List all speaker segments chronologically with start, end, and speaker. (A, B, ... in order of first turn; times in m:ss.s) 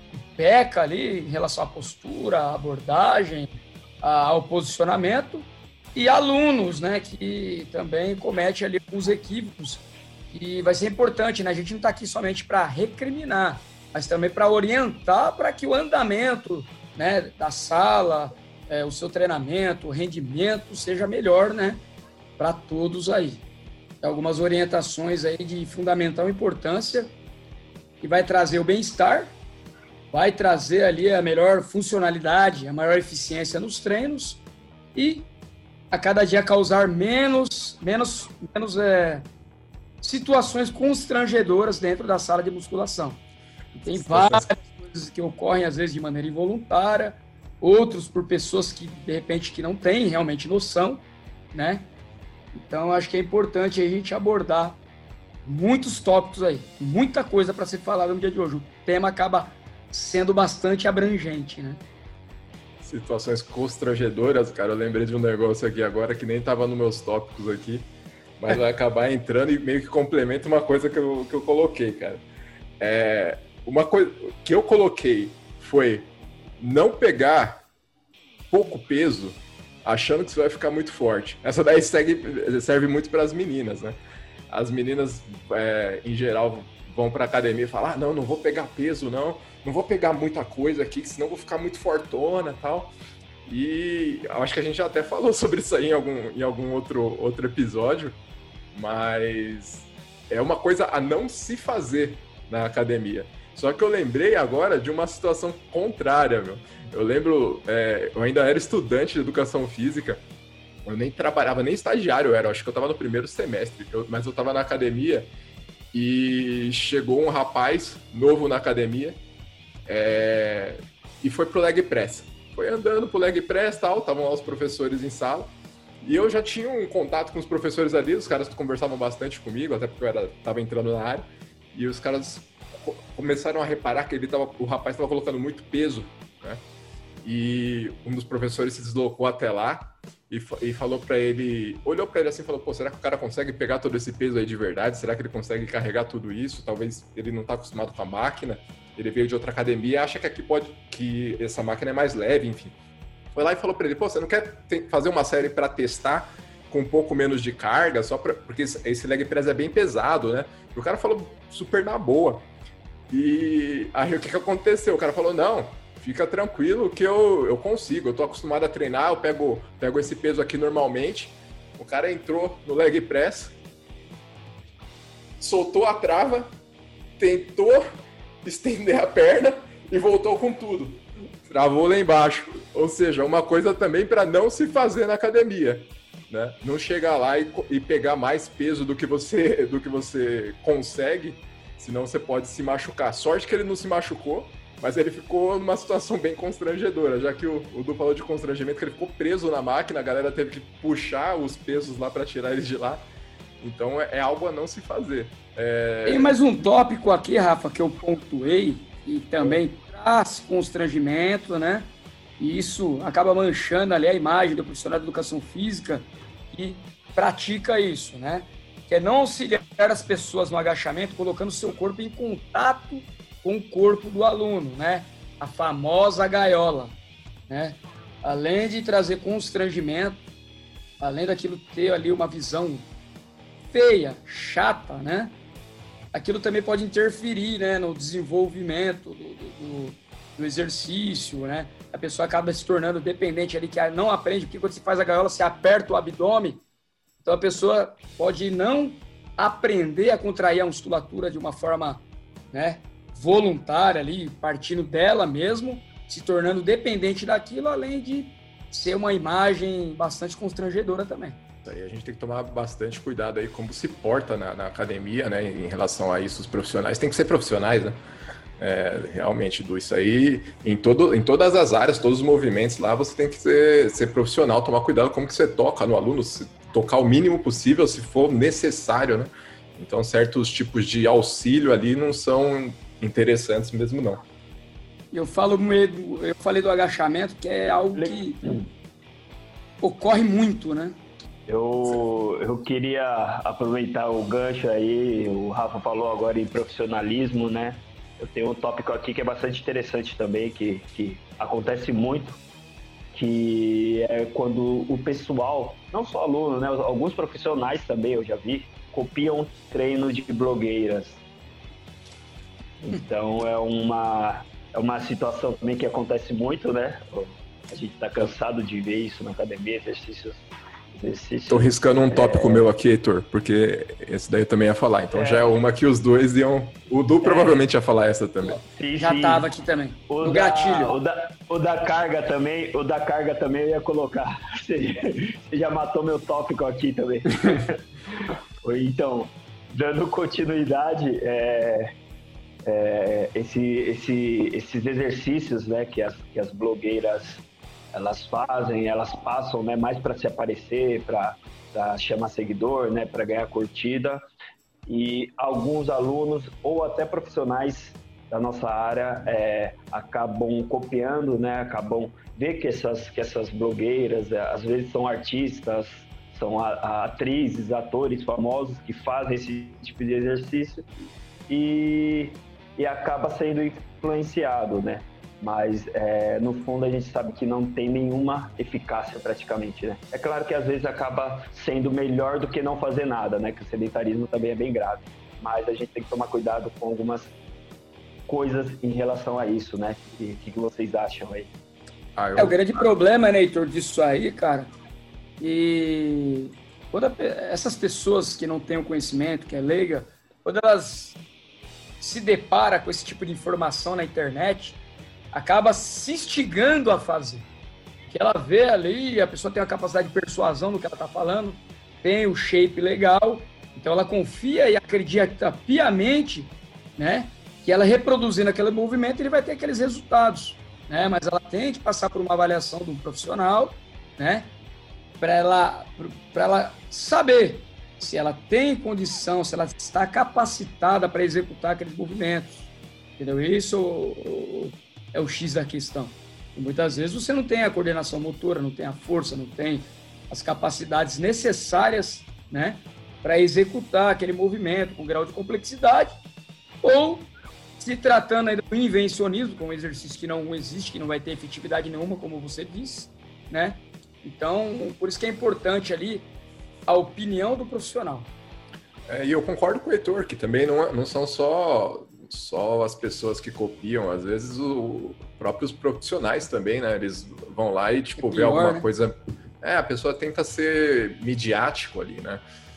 0:00.4-0:03.5 A
0:04.0-0:21.8 A
0:22.4-0:23.4 A
0:24.0-0:27.1 A
0:28.0-0:29.4 A
0:30.1-0:34.4 A
0:34.9-0:35.3 A
0:35.9-0:39.2 A
0:40.0-0:43.2 A
0:43.7-0:51.9 A
0:43.9-0:44.4 B
0:52.5-0:54.8 A
0:55.4-1:01.8 A
1:02.8-1:12.2 B
1:12.8-1:17.6 B
1:18.5-1:24.0 B
1:24.5-1:32.9 B
1:33.4-1:38.2 B
1:38.7-1:50.2 B
1:50.8-1:55.3 B
1:55.9-1:59.2 B
1:59.9-2:16.6 B
2:17.2-2:32.7 B
2:33.3-2:42.5 B
2:43.1-2:53.6 B
2:55.4-2:56.5 B
2:57.2-2:57.8 B
2:58.4-3:23.0 B
3:23.6-3:26.4 B
3:26.0-3:47.0 A
3:47.5-3:50.2 A
3:51.0-3:52.9 A
3:53.7-3:55.3 A
3:56.1-4:06.6 A
4:07.2-4:21.4 A
4:21.6-4:28.0 B
4:28.6-4:44.2 B
4:45.1-4:48.4 A
4:47.9-4:48.6 C
4:49.8-4:51.0 A
4:51.5-5:02.4 C
5:03.1-5:11.2 C
5:12.8-5:22.6 C
5:21.5-5:28.6 B
5:25.1-5:25.6 C
5:27.2-5:27.6 C
5:28.6-5:29.5 C
5:29.0-5:30.9 A
5:30.1-5:37.8 C
5:38.6-5:41.9 C
5:42.6-5:54.2 C
5:54.8-6:10.8 C
6:11.5-6:27.3 C
6:28.3-6:31.5 C
6:32.2-6:32.6 B
6:32.4-6:34.7 A
6:35.4-6:41.2 A
6:42.0-6:44.8 A
6:45.3-6:47.4 A
6:48.1-7:04.5 A
7:05.2-7:26.1 A
7:26.8-7:36.3 A
7:36.9-7:38.3 A
7:39.1-7:52.4 B
7:48.2-7:48.9 A